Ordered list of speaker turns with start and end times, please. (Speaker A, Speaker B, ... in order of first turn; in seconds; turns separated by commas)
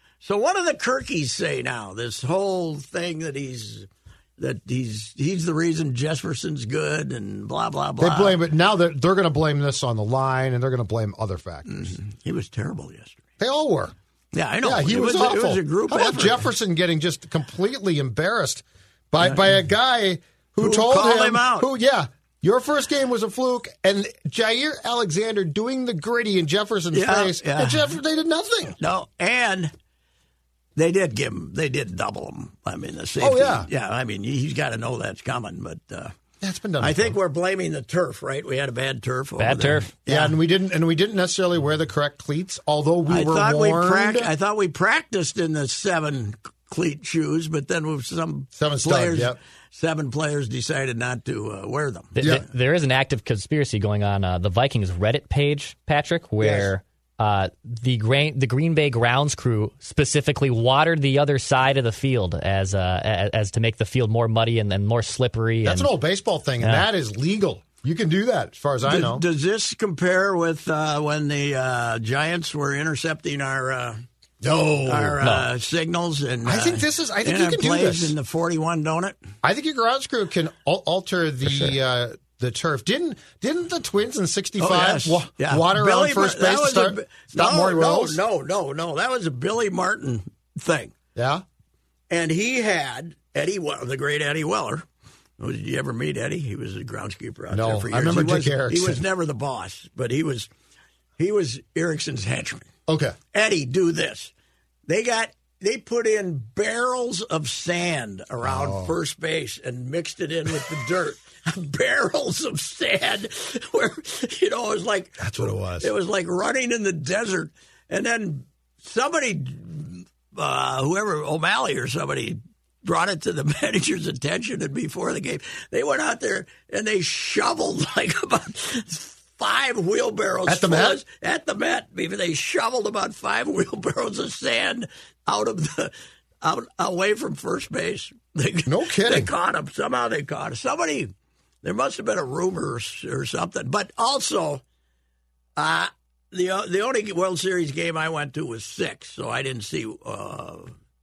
Speaker A: 0.2-8.4, Speaker B: 8.0-11.9, Speaker A: 11.7-13.2, Speaker B: 13.4-13.9, Speaker A: 14.3-16.5, Speaker B: 14.6-28.8, Speaker A: 19.2-19.5, Speaker A: 20.6-21.7, Speaker A: 26.9-28.0, Speaker A: 28.8-29.7, Speaker A: 30.8-36.1, Speaker B: 33.2-33.7, Speaker B: 36.4-37.2, Speaker A: 36.8-40.4, Speaker C: 39.4-39.9, Speaker B: 40.1-44.3, Speaker A: 43.1-52.3, Speaker B: 48.5-49.4, Speaker C: 52.1-65.9, Speaker B: 56.4-56.7, Speaker B: 65.6-69.2, Speaker C: 66.6-66.9, Speaker A: 68.9-74.0, Speaker B: 74.4-75.2, Speaker A: 74.8-79.2, Speaker B: 76.5-78.1, Speaker B: 79.4-88.2, Speaker A: 84.6-90.9, Speaker B: 91.2-91.4, Speaker A: 92.1-94.8, Speaker A: 95.4-100.5, Speaker B: 97.5-99.0, Speaker A: 101.2-102.7, Speaker B: 102.9-103.2, Speaker A: 103.3-104.3, Speaker A: 104.9-141.1, Speaker B: 108.4-108.9, Speaker B: 115.2-115.9, Speaker B: 130.5-131.0, Speaker B: 138.7-139.3, Speaker A: 141.6-144.6, Speaker A: 145.6-150.7